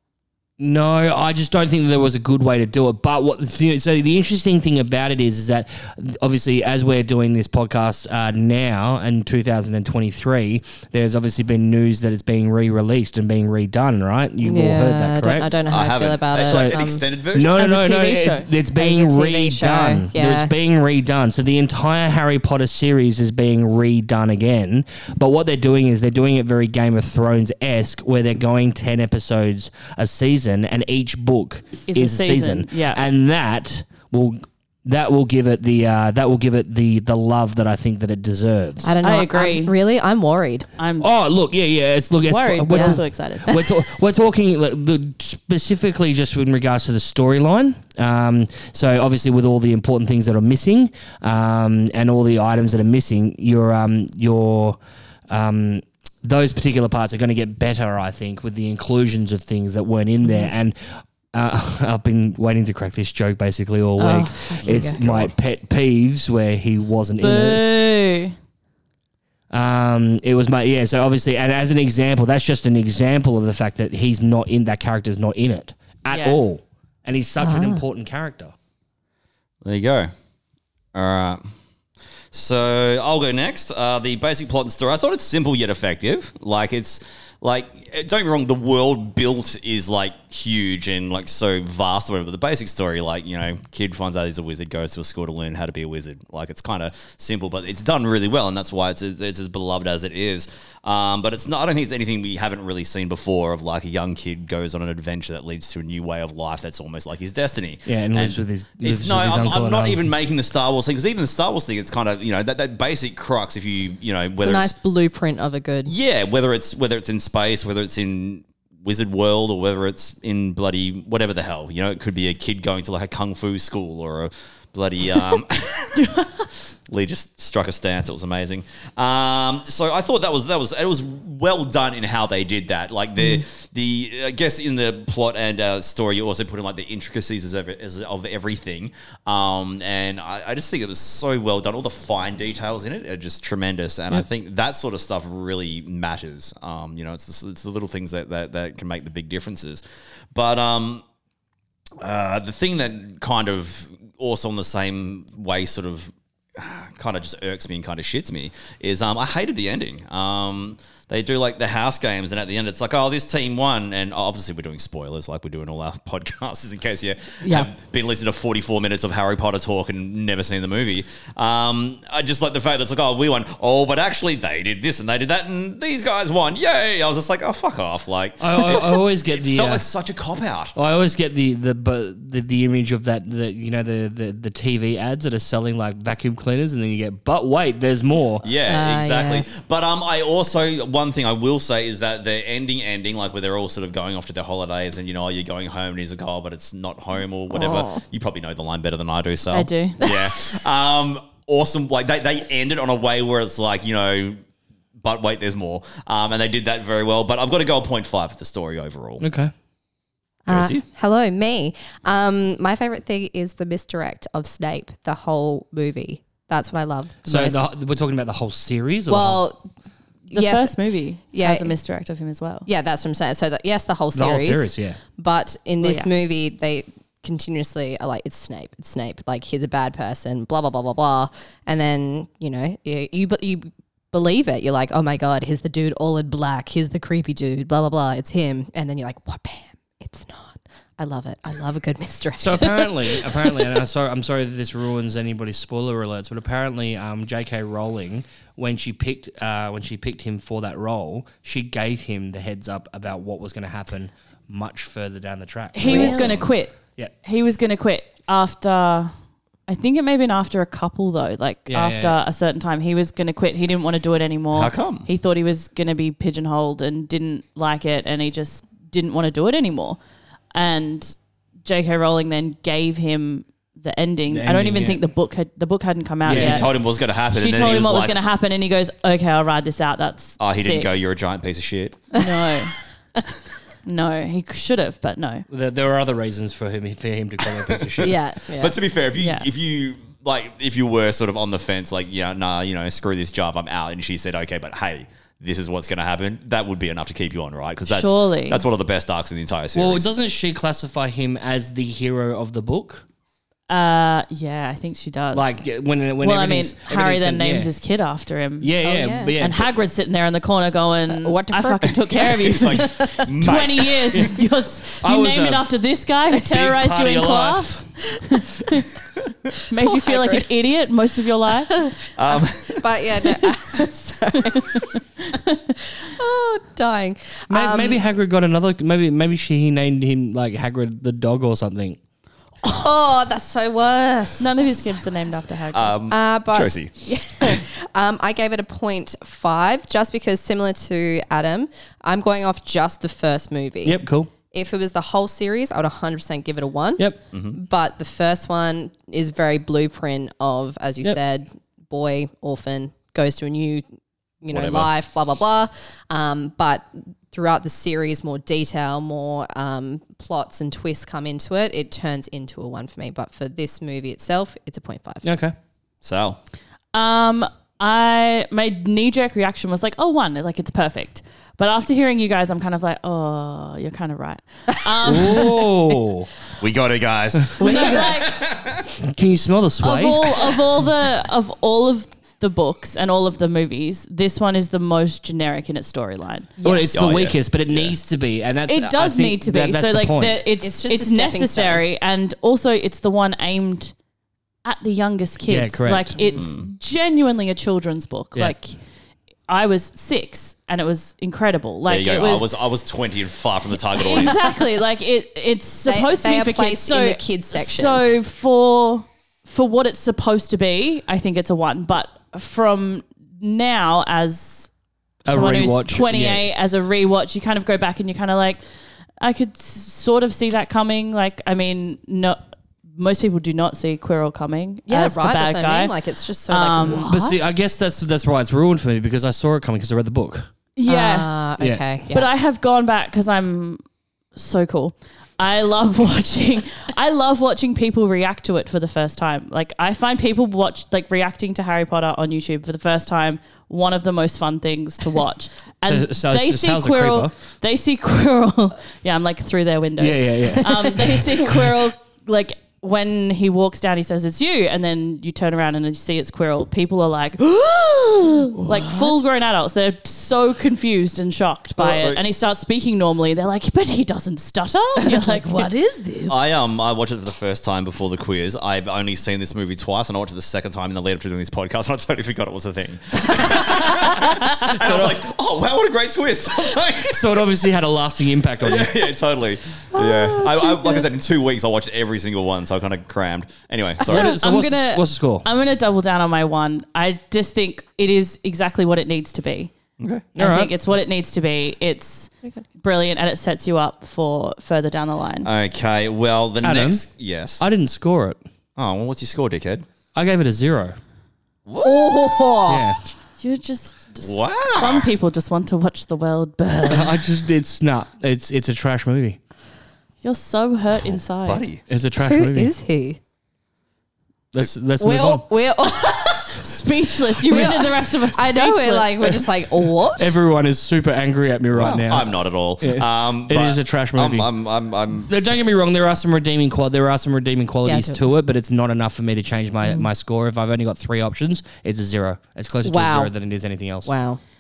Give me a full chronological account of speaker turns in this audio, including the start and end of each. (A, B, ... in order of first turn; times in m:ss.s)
0:00.6-0:15.5 A
0:14.4-0:17.0 B
0:15.7-0:17.6 C
0:16.4-0:16.8 A
0:17.3-0:38.9 A
0:17.5-0:18.5 D
0:18.8-0:20.5 B
0:31.9-0:33.0 D
0:38.8-0:40.7 B
0:39.0-0:39.8 D
0:40.8-0:41.1 D
0:41.0-0:54.8 A
0:42.2-0:43.6 D
0:42.7-0:43.6 B
0:55.3-1:07.6 A
1:04.0-1:05.0 B
1:04.6-1:05.3 C
1:07.2-1:08.3 D
1:09.5-1:18.5 A
1:16.1-1:16.4 D
1:17.4-1:17.8 B
1:19.6-1:20.1 C
1:20.9-1:21.5 C
1:22.3-1:54.7 C
1:47.8-1:50.1 A
1:54.4-1:55.9 B
1:55.8-2:06.2 C
2:06.0-2:06.4 D
2:06.9-2:29.8 C
2:30.3-2:31.0 C
2:32.0-3:00.7 C
2:47.4-2:47.7 B
2:58.4-2:59.8 A
3:00.8-3:08.4 A
3:08.4-3:24.4 C
3:08.7-3:09.5 B
3:17.5-3:18.0 B
3:19.5-3:20.1 D
3:25.0-3:29.2 C
3:29.2-3:29.5 A
3:30.5-3:37.7 B
3:30.5-3:30.8 C
3:37.2-3:39.4 A
3:39.1-3:39.7 B
3:40.3-3:42.7 D
3:40.3-3:40.8 B
3:41.3-3:41.7 B
3:42.6-4:03.4 B
3:44.1-3:45.0 A
3:45.8-3:46.1 D
4:02.4-4:17.1 A
4:15.7-4:19.1 D
4:15.8-4:16.3 B
4:19.7-4:30.0 D
4:21.7-4:22.2 A
4:24.5-4:25.1 C
4:30.5-4:41.0 D
4:34.3-4:35.0 A
4:36.2-4:38.2 C
4:36.2-4:36.7 A
4:40.4-4:42.1 C
4:42.1-4:42.7 D
4:43.8-4:45.4 D
4:45.5-4:48.1 A
4:47.7-5:00.1 C
4:48.0-4:48.7 B
4:49.2-4:49.5 D
4:57.9-4:58.6 D
4:59.7-5:03.0 A
5:03.7-5:05.6 D
5:05.3-5:07.7 A
5:06.2-5:08.8 D
5:08.6-5:09.8 A
5:08.8-5:09.3 B
5:09.4-5:18.9 D
5:11.1-5:13.1 B
5:12.3-5:14.2 C
5:15.0-5:15.6 A
5:16.4-5:17.8 A
5:19.7-5:21.9 D
5:19.8-5:20.5 B
5:21.7-5:24.9 B
5:22.2-5:22.8 C
5:25.3-5:25.7 D
5:25.9-5:28.0 B
5:27.5-5:32.0 A
5:32.6-5:34.9 B
5:34.4-5:36.0 D
5:35.7-5:37.6 C
5:36.1-5:44.0 B
5:43.8-5:44.3 A
5:44.5-5:53.8 B
5:47.3-5:47.6 C
5:54.4-6:05.2 B
5:54.5-5:54.9 C
6:05.2-6:05.5 A
6:06.0-6:06.4 C
6:06.9-6:15.9 D
6:15.0-6:16.3 A
6:16.6-6:18.9 C
6:17.6-6:18.2 B
6:17.6-6:18.4 D
6:19.0-6:20.3 A
6:19.8-6:26.5 D
6:26.6-6:27.0 B
6:26.6-6:30.4 A
6:26.9-6:27.9 C
6:28.7-6:33.9 D
6:30.6-6:31.8 B
6:34.6-6:38.8 D
6:35.5-6:36.2 A
6:36.3-6:36.7 C
6:39.5-6:42.5 D
6:41.9-6:44.5 C
6:44.0-6:54.7 D
6:45.8-6:48.0 B
6:55.2-6:58.6 D
6:55.3-6:56.5 A
6:59.2-7:02.4 D
7:03.0-7:05.9 D
7:04.9-7:07.4 B
7:06.5-7:07.3 D
7:06.9-7:10.5 A
7:10.8-7:11.3 D
7:10.8-7:12.3 B
7:12.0-7:13.8 D
7:14.3-7:46.3 D
7:25.8-7:27.3 A
7:30.0-7:31.6 A
7:41.8-7:42.0 B
7:41.8-7:42.2 C
7:45.2-7:45.7 B
7:46.3-7:57.4 C
7:54.8-7:55.1 A
7:57.1-7:59.0 A
7:58.6-8:04.4 C
8:04.1-8:05.5 A
8:04.1-8:09.7 D
8:10.0-8:10.3 C
8:10.4-8:10.7 A
8:10.4-8:15.5 D
8:15.4-8:17.6 C
8:16.6-8:17.0 A
8:17.6-8:18.4 A
8:18.8-8:19.8 C
8:20.1-8:21.0 A
8:21.7-8:22.6 C
8:21.8-8:22.8 B
8:22.7-8:23.0 A
8:23.4-8:27.3 D
8:24.2-8:25.1 C
8:26.9-8:29.4 A
8:30.2-8:31.6 D
8:31.4-8:31.8 C
8:31.9-8:32.7 A
8:32.2-8:33.2 B
8:34.5-8:35.5 A
8:35.0-8:36.7 B
8:35.9-8:39.4 D
8:37.4-8:40.3 B
8:40.2-8:44.5 A
8:41.8-8:45.3 C
8:45.3-8:54.1 A
8:47.8-8:48.3 B
8:52.8-8:53.3 B
8:54.0-8:54.4 B